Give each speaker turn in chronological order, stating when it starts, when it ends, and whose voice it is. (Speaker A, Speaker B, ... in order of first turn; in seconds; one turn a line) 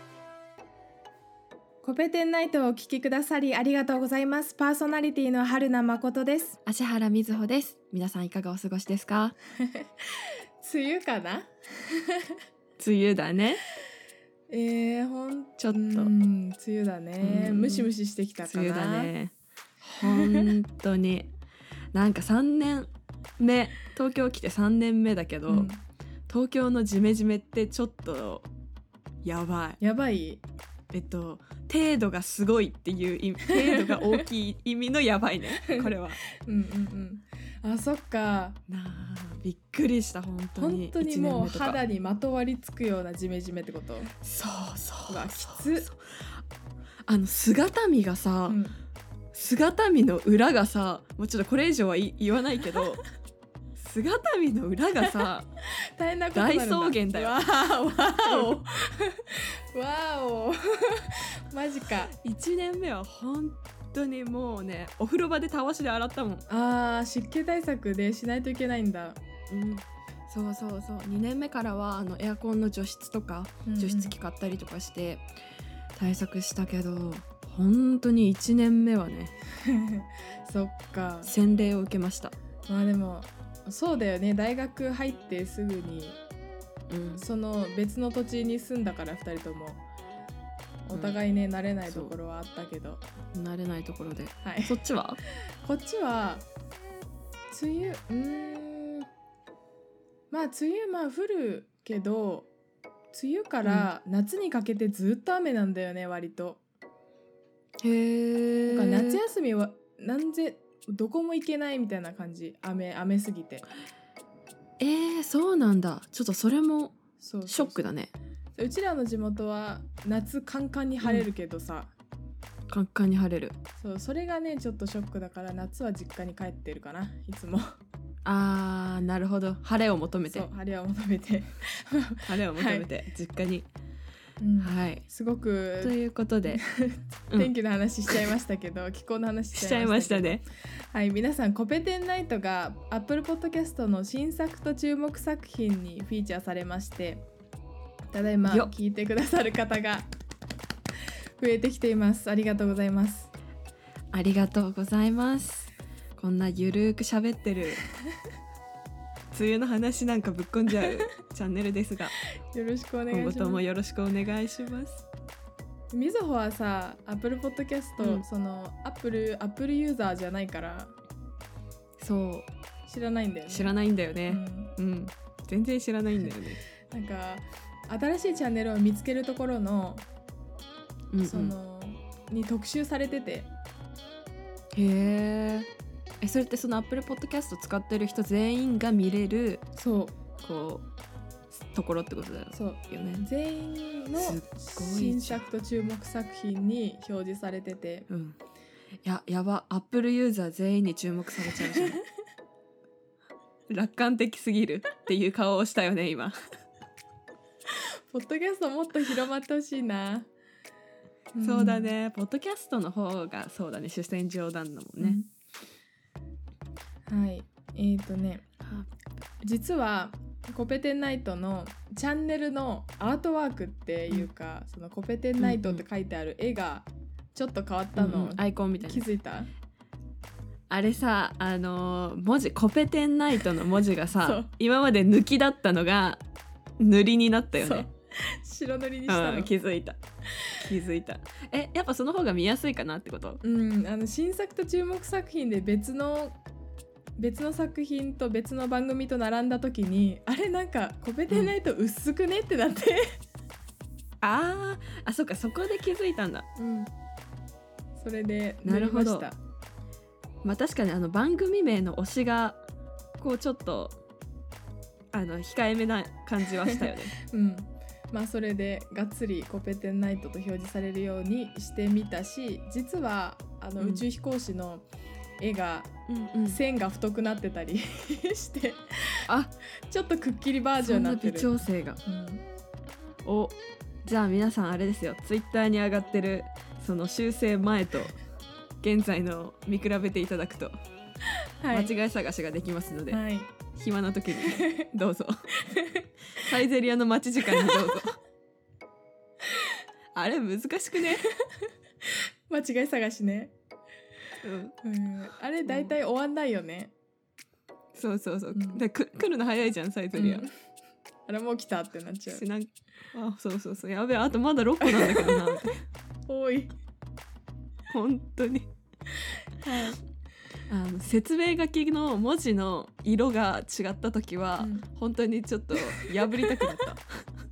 Speaker A: 1.8-6.6
Speaker B: 6.7-9.3
Speaker A: 9.6-12.4
Speaker B: 12.8-13.6
Speaker A: 14.5-19.1
Speaker B: 15.6-16.1
Speaker B: 17.2-17.9
Speaker B: 18.4-19.3
Speaker B: 19.8-21.3
Speaker A: 20.0-20.5
Speaker B: 21.9-25.7
Speaker A: 25.5-25.8
Speaker B: 26.3-28.5
Speaker B: 29.2-29.8
Speaker A: 29.8-30.4
Speaker B: 30.9-36.2
Speaker A: 33.5-34.2
Speaker A: 35.6-38.6
Speaker B: 38.7-41.8
Speaker A: 40.5-44.1
Speaker B: 44.2-46.4
Speaker A: 45.1-45.9
Speaker B: 47.0-48.6
Speaker A: 48.5-48.8
Speaker B: 49.3-53.0
Speaker B: 53.8-55.5
Speaker A: 56.0-62.1
Speaker B: 56.3-57.4
Speaker B: 58.2-58.6
Speaker B: 62.1-66.4
Speaker A: 66.5-69.2
Speaker B: 69.5-75.2
Speaker A: 73.7-74.1
Speaker B: 75.9-79.3
Speaker A: 79.7-81.3
Speaker B: 81.2-82.3
Speaker A: 82.7-86.2
Speaker B: 86.9-87.2
Speaker A: 87.2-89.8
Speaker A: 90.8-93.0
Speaker B: 91.8-92.1
Speaker B: 93.3-95.2
Speaker A: 94.4-94.8
Speaker A: 95.6-96.5
Speaker A: 97.5-99.1
Speaker A: 100.3-102.5
Speaker A: 103.1-106.6
Speaker B: 103.6-103.9
Speaker B: 107.8-109.2
Speaker A: 108.7-113.7
Speaker B: 114.8-118.1
Speaker A: 117.2-117.8
Speaker A: 118.6-121.9
Speaker B: 121.0-121.3
Speaker B: 122.7-123.6
Speaker A: 123.8-127.6
Speaker B: 128.2-130.4
Speaker A: 130.3-132.9
Speaker B: 132.2-133.7
Speaker A: 134.4-136.0
Speaker B: 134.6-135.0
Speaker B: 135.8-136.6
Speaker A: 136.5-147.2
Speaker B: 139.6-140.4
Speaker A: 148.1-150.1
Speaker B: 148.5-148.7
Speaker A: 151.4-153.3
Speaker B: 154.1-157.8
Speaker B: 159.3-162.2
Speaker A: 162.5-163.6
Speaker B: 163.1-165.0
Speaker A: 165.9-170.9
Speaker B: 168.0-168.2
Speaker B: 172.0-172.5
Speaker A: 172.9-173.7
Speaker B: 173.5-176.6
Speaker A: 174.2-174.7
Speaker A: 176.2-180.0
Speaker B: 181.1-181.5
Speaker A: 181.2-183.5
Speaker B: 184.7-185.7
Speaker B: 186.2-189.6
Speaker A: 189.8-190.2
Speaker B: 190.4-190.8
Speaker B: 191.5-193.2
Speaker A: 192.5-198.1
Speaker B: 194.2-195.4
Speaker B: 198.1-198.4
Speaker B: 199.0-202.0
Speaker B: 203.7-206.3
Speaker A: 208.1-210.3
Speaker A: 211.3-211.9
Speaker B: 211.4-215.2
Speaker A: 215.0-215.3
Speaker A: 217.1-218.5
Speaker B: 218.6-218.9
Speaker A: 219.4-229.5
Speaker B: 225.4-225.8
Speaker B: 227.9-229.0
Speaker B: 230.7-236.2
Speaker A: 234.2-234.5
Speaker B: 236.8-237.9
Speaker A: 237.6-239.5
Speaker B: 239.1-240.0
Speaker B: 240.6-243.4
Speaker A: 243.4-246.4
Speaker A: 247.2-253.1
Speaker B: 251.3-251.5
Speaker B: 254.2-256.5
Speaker A: 256.6-256.9
Speaker A: 258.0-259.4
Speaker B: 258.6-259.3
Speaker B: 260.4-262.6
Speaker B: 263.2-264.0
Speaker B: 265.1-267.1
Speaker A: 266.6-274.9
Speaker B: 273.8-274.0
Speaker A: 275.4-275.9
Speaker B: 276.1-276.6
Speaker A: 276.4-279.2
Speaker B: 279.3-279.5
Speaker A: 279.9-282.4
Speaker B: 280.8-282.0
Speaker B: 283.2-288.2
Speaker B: 288.8-290.8
Speaker A: 291.6-291.9
Speaker B: 291.7-293.2
Speaker A: 293.1-293.5
Speaker B: 293.7-295.5
Speaker A: 294.4-294.7
Speaker A: 295.7-296.1
Speaker B: 296.3-298.2
Speaker A: 297.4-298.0
Speaker B: 300.1-301.2
Speaker A: 301.1-301.5
Speaker A: 302.5-303.5
Speaker B: 304.4-304.8
Speaker A: 304.8-306.9
Speaker B: 305.7-305.9
Speaker B: 307.9-310.5
Speaker A: 308.5-308.8
Speaker A: 310.1-310.5
Speaker A: 311.3-312.4
Speaker B: 312.3-315.8
Speaker A: 314.8-315.6
Speaker A: 316.3-316.7
Speaker B: 317.9-318.7
Speaker A: 319.6-320.0
Speaker B: 320.7-327.2
Speaker A: 324.6-324.9
Speaker A: 325.7-326.7